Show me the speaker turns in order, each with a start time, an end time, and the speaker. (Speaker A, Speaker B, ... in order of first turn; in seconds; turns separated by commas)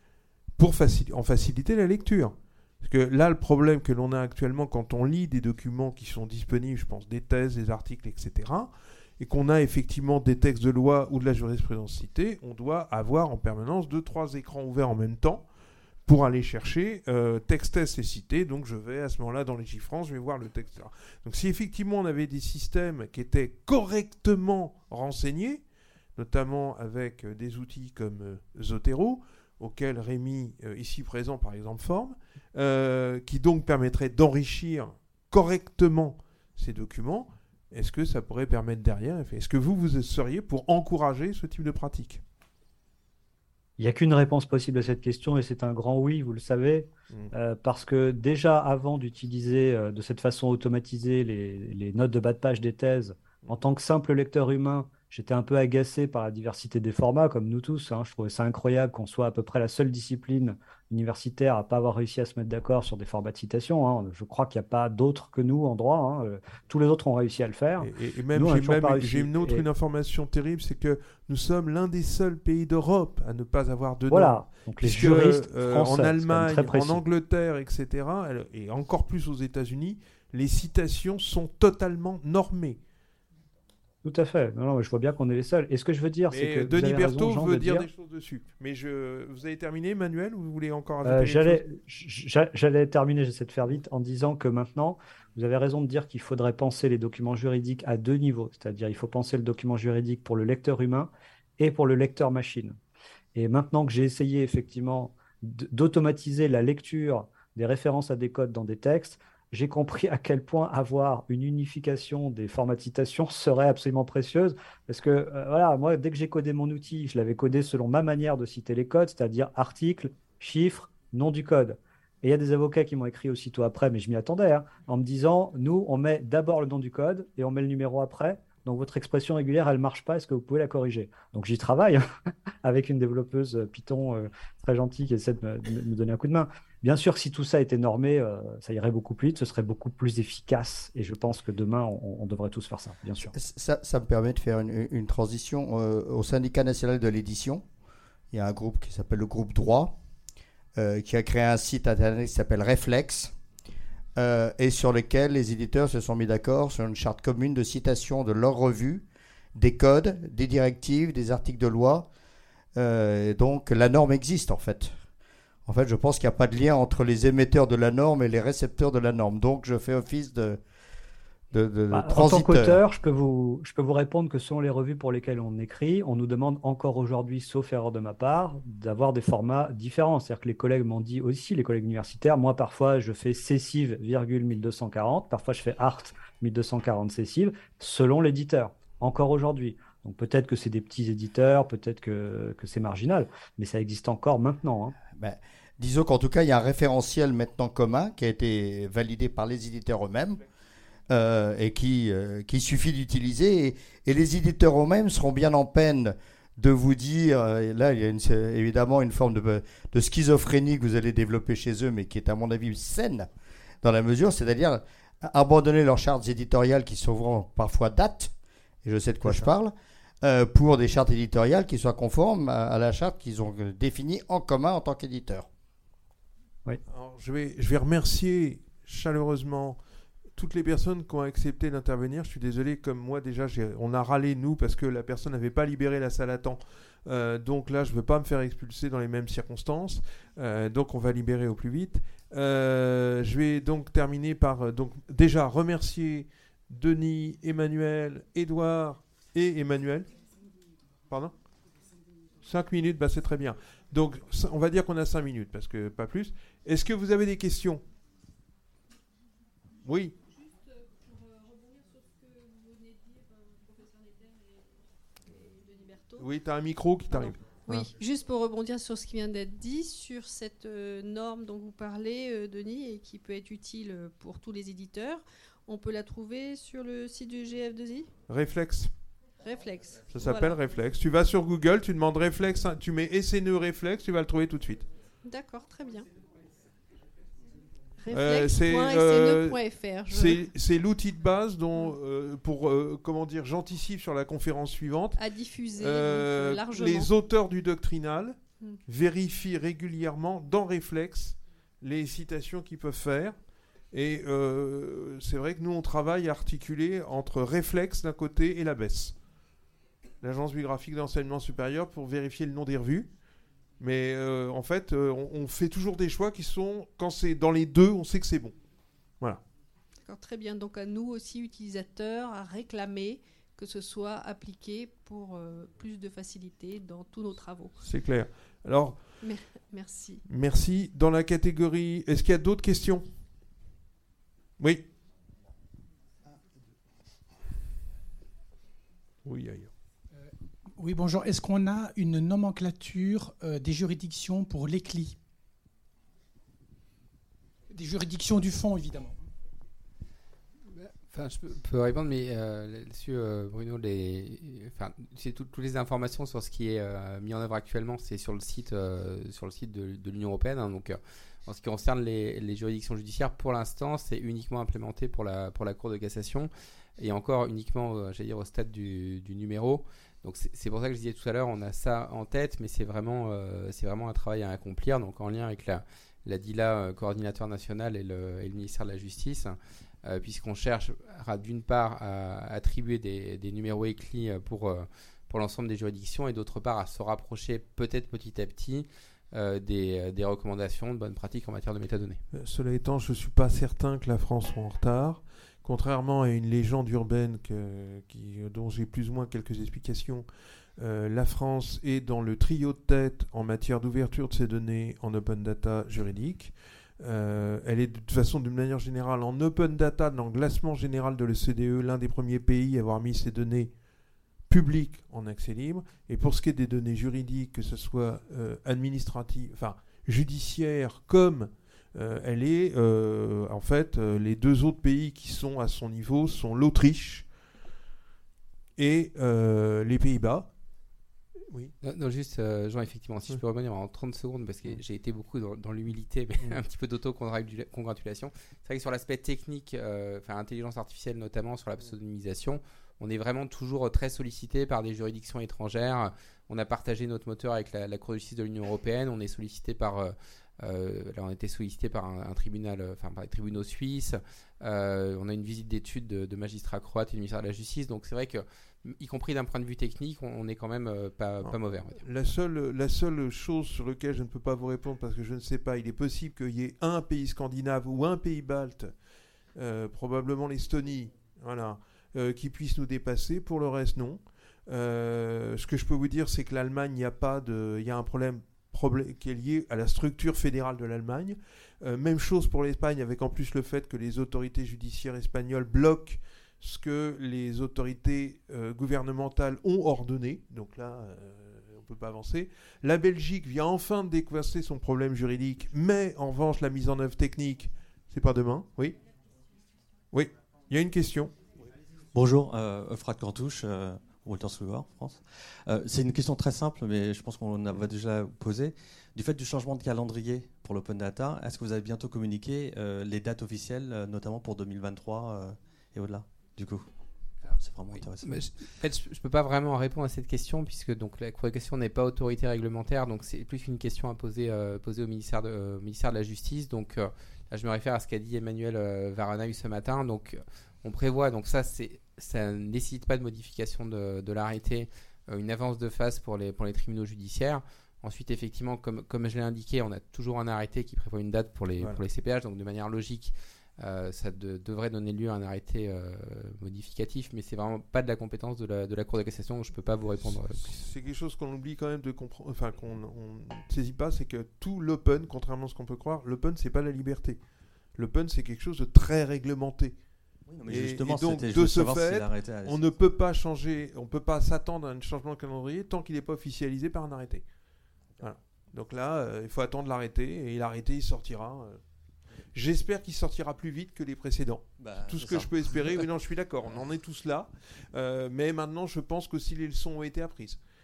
Speaker A: 0.6-15.5, Speaker A: 16.1-25.6, Speaker A: 26.2-42.2, Speaker B: 43.8-69.7, Speaker A: 67.8-82.8, Speaker B: 74.1-77.0, Speaker B: 84.0-87.9, Speaker A: 86.3-91.6, Speaker B: 91.0-102.8, Speaker B: 103.3-132.0, Speaker B: 132.6-143.3, Speaker C: 143.4-147.6, Speaker C: 148.3-149.9, Speaker C: 150.8-153.3, Speaker C: 154.2-162.1, Speaker C: 162.8-164.9, Speaker C: 165.7-170.6, Speaker C: 171.5-172.8, Speaker B: 171.9-194.9, Speaker C: 195.2-200.4, Speaker C: 201.1-213.3, Speaker C: 213.8-218.3, Speaker C: 218.8-225.5, Speaker B: 219.2-219.5, Speaker A: 226.9-229.8, Speaker A: 230.3-250.1, Speaker A: 251.1-251.3, Speaker A: 252.4-257.8, Speaker A: 259.8-260.2, Speaker D: 260.2-266.3, Speaker A: 266.2-267.4, Speaker D: 267.1-278.1, Speaker A: 278.3-278.9, Speaker D: 279.4-280.6, Speaker A: 280.1-284.9, Speaker D: 285.2-286.1, Speaker D: 288.0-290.5, Speaker A: 288.1-295.2, Speaker D: 295.2-297.1, Speaker A: 295.8-303.4, Speaker A: 303.9-309.2, Speaker A: 310.2-313.1, Speaker A: 313.8-318.6, Speaker D: 320.0-327.8, Speaker A: 327.8-329.0, Speaker D: 329.2-330.2, Speaker A: 330.3-333.1, Speaker A: 334.6-334.9, Speaker A: 339.2-339.7, Speaker E: 340.2-345.2, Speaker E: 347.7-349.2, Speaker F: 350.7-392.2, Speaker A: 392.3-400.3, Speaker A: 400.8-413.7, Speaker A: 414.5-427.3, Speaker A: 428.8-430.5, Speaker A: 431.5-431.7, Speaker F: 431.8-462.1, Speaker A: 461.4-468.9, Speaker A: 469.6-499.0, Speaker A: 500.1-501.4, Speaker G: 502.1-516.9, Speaker F: 517.5-550.7, Speaker G: 517.6-518.5, Speaker A: 550.2-557.4, Speaker A: 558.0-560.0, Speaker G: 560.5-563.3, Speaker A: 560.6-567.5, Speaker A: 568.2-571.8, Speaker A: 572.5-580.6, Speaker G: 574.8-576.1